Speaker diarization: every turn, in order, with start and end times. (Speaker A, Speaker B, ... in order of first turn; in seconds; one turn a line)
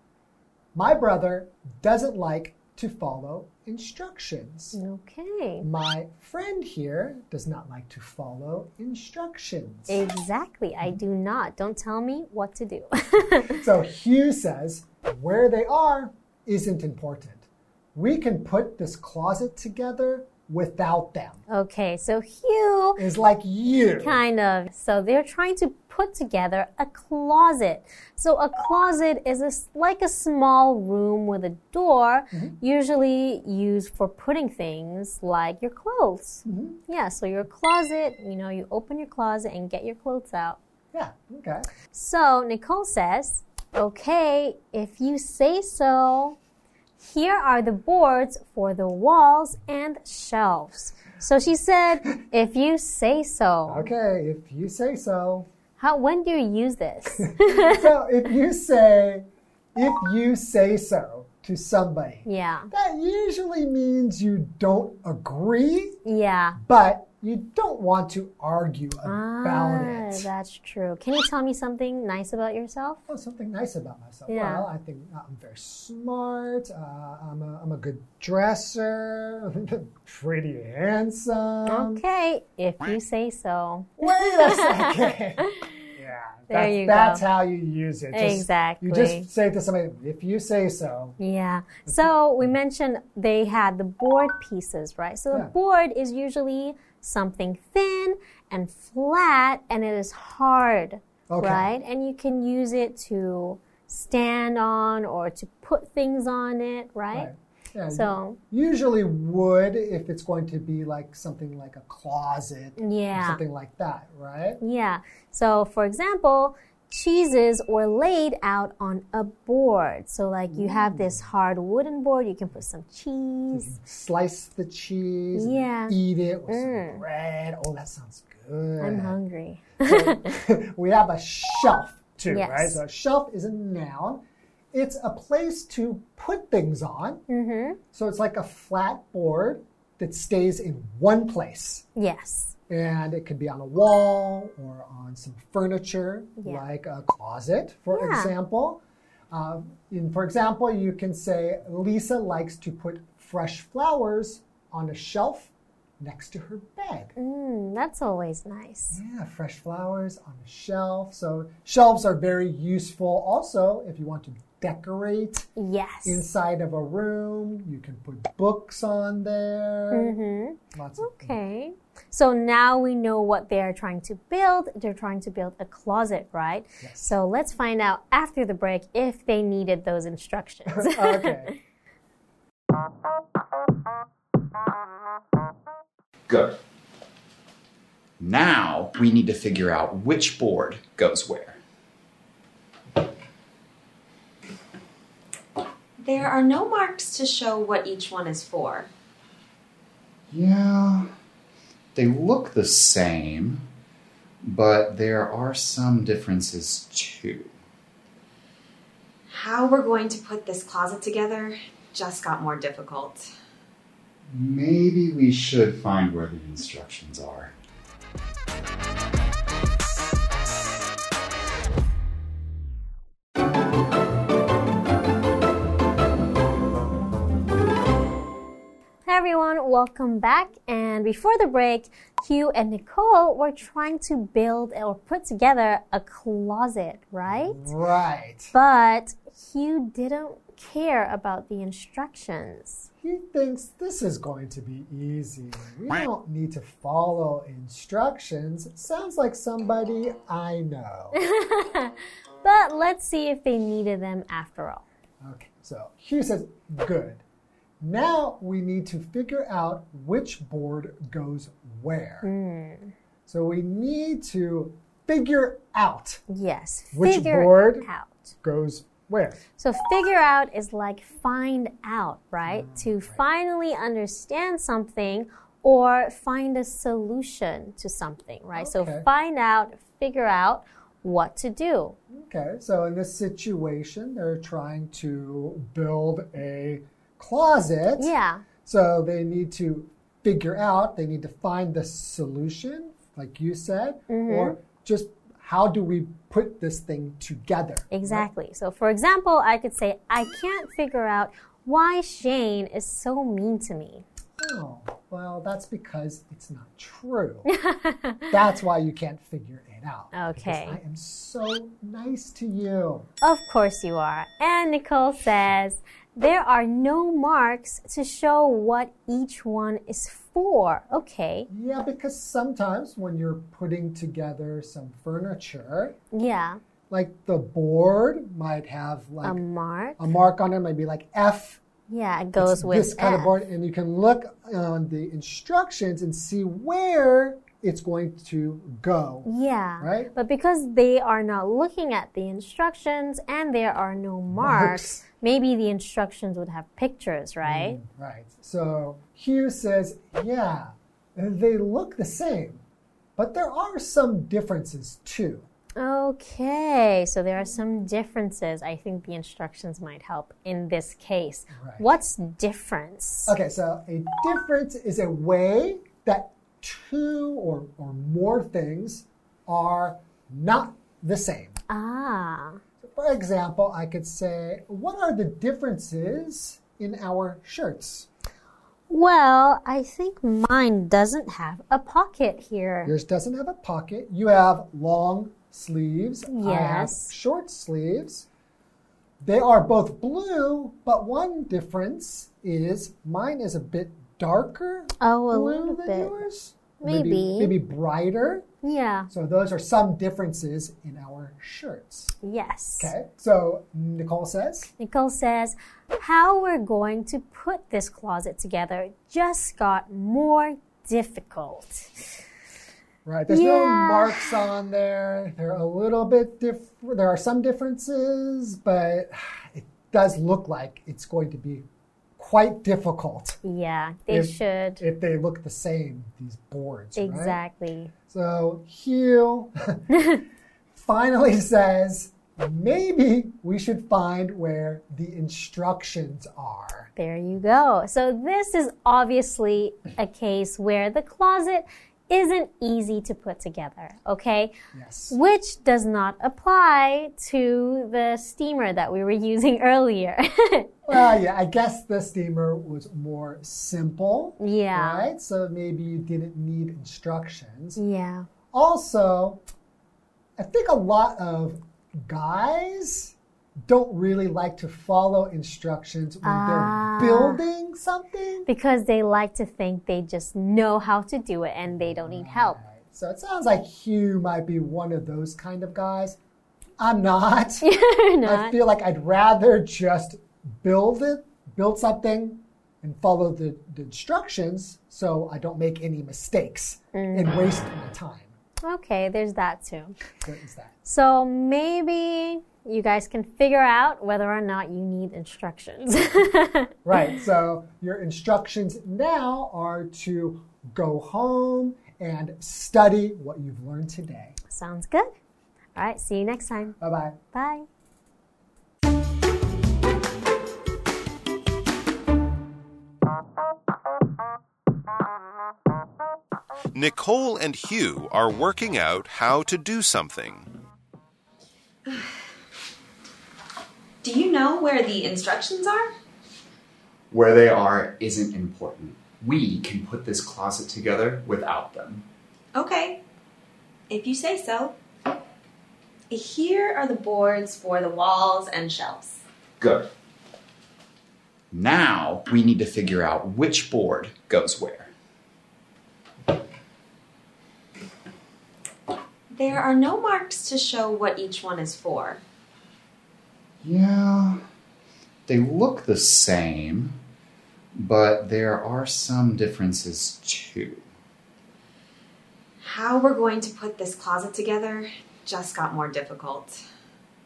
Speaker A: 0.7-4.8
Speaker B: 4.7-5.7
Speaker A: 5.6-10.0
Speaker B: 9.9-13.6
Speaker A: 13.6-21.4
Speaker B: 21.5-23.0
Speaker A: 22.9-24.2
Speaker B: 24.0-40.6
Speaker A: 32.3-32.6
Speaker A: 36.4-36.8
Speaker A: 40.9-41.7
Speaker B: 41.9-46.4
Speaker B: 47.0-53.9
Speaker A: 53.7-55.5
Speaker B: 55.8-57.8
Speaker A: 57.2-66.0
Speaker B: 62.2-62.7
Speaker B: 66.0-66.6
Speaker A: 66.6-70.3
Speaker B: 69.0-73.0
Speaker A: 73.1-82.0
Speaker B: 74.3-74.7
Speaker B: 81.7-85.8
Speaker A: 84.0-91.2
Speaker B: 86.5-87.2
Speaker B: 88.1-89.3
Speaker B: 91.2-107.3
Speaker A: 91.8-92.5
Speaker A: 101.3-101.7
Speaker A: 107.1-114.6
Speaker B: 107.9-108.4
Speaker B: 112.8-113.4
Speaker B: 114.6-123.7
Speaker A: 120.5-121.2
Speaker A: 123.5-129.2
Speaker B: 125.3-125.9
Speaker B: 126.5-127.0
Speaker B: 128.8-130.2
Speaker A: 129.8-137.2
Speaker B: 132.3-132.8
Speaker B: 137.3-137.8
Speaker A: 137.9-141.8
Speaker B: 141.9-142.5
Speaker A: 142.7-157.1
Speaker B: 147.9-148.3
Speaker B: 157.2-159.0
Speaker A: 158.9-165.5
Speaker B: 165.6-166.2
Speaker A: 166.0-170.2
Speaker B: 169.9-181.5
Speaker A: 170.7-171.4
Speaker A: 176.8-177.2
Speaker A: 180.7-181.6
Speaker C: 186.3-186.6
Speaker C: 188.2-191.6
Speaker D: 196.0-198.9
Speaker C: 200.3-201.1
Speaker C: 201.9-203.6
Speaker C: 204.4-207.5
Speaker D: 209.3-213.3
Speaker C: 214.3-217.5
Speaker B: 229.1-237.7
Speaker A: 237.3-238.5
Speaker B: 238.5-242.9
Speaker A: 243.0-251.2
Speaker B: 251.2-254.8
Speaker A: 255.2-257.2
Speaker A: 257.8-262.3
Speaker B: 262.2-262.9
Speaker A: 263.3-266.2
Speaker B: 266.3-268.3
Speaker A: 266.9-267.9
Speaker A: 268.4-269.4
Speaker B: 269.6-281.9
Speaker A: 272.4-273.2
Speaker A: 278.5-279.1
Speaker A: 282.1-298.3
Speaker B: 288.0-288.4
Speaker B: 294.1-294.5
Speaker B: 297.9-304.0
Speaker A: 304.4-307.5
Speaker B: 307.5-308.3
Speaker A: 308.3-313.1
Speaker B: 310.1-310.8
Speaker B: 313.2-321.5
Speaker A: 321.5-325.9
Speaker B: 326.1-326.6
Speaker A: 326.9-329.4
Speaker B: 329.2-330.1
Speaker A: 330.0-331.6
Speaker B: 331.9-333.4
Speaker A: 332.4-339.3
Speaker B: 339.2-347.8
Speaker A: 339.8-340.1
Speaker A: 344.3-345.0
Speaker A: 347.4-352.6
Speaker A: 353.2-355.5
Speaker B: 355.8-363.3
Speaker A: 361.5-362.0
Speaker A: 363.3-371.6
Speaker B: 371.7-372.6
Speaker A: 372.8-378.1
Speaker B: 378.9-382.9
Speaker A: 382.8-388.3
Speaker B: 386.3-387.1
Speaker A: 389.2-398.4
Speaker B: 395.0-396.2
Speaker B: 396.8-397.5
Speaker B: 398.6-399.1
Speaker A: 399.1-402.1
Speaker B: 402.2-402.9
Speaker A: 402.8-404.7
Speaker B: 404.8-411.9
Speaker A: 413.0-421.6
Speaker B: 413.3-414.4
Speaker A: 422.2-423.4
Speaker B: 423.4-424.8
Speaker A: 424.1-427.4
Speaker B: 426.9-427.9
Speaker A: 428.1-429.8
Speaker A: 430.7-436.9
Speaker B: 436.9-444.5
Speaker A: 444.7-445.2
Speaker B: 445.1-450.7
Speaker A: 450.9-457.8
Speaker B: 454.4-455.0
Speaker B: 457.8-458.3
Speaker A: 458.5-459.4
Speaker A: 460.4-463.1
Speaker A: 463.6-468.5
Speaker B: 466.2-467.4
Speaker B: 468.5-472.6
Speaker A: 471.6-476.2
Speaker A: 476.8-477.6
Speaker B: 477.6-478.5
Speaker A: 478.2-488.3
Speaker B: 486.9-487.3
Speaker B: 488.6-490.0
Speaker A: 490.2-490.7
Speaker B: 490.9-496.7
Speaker A: 496.8-504.4
Speaker B: 504.5-505.1
Speaker B: 505.7-506.8
Speaker A: 506.8-507.2
Speaker B: 507.3-507.7
Speaker E: 516.7-520.5
Speaker D: 524.0-525.9
Speaker C: 527.1-532.0
Speaker D: 532.5-533.0
Speaker D: 533.9-534.7
Speaker D: 536.1-539.2
Speaker C: 539.6-539.9
Speaker C: 541.5-544.9
Speaker D: 549.3-552.2
Speaker C: 553.6-554.4
Speaker C: 555.3-557.0
Speaker C: 557.7-560.8
Speaker D: 562.6-566.6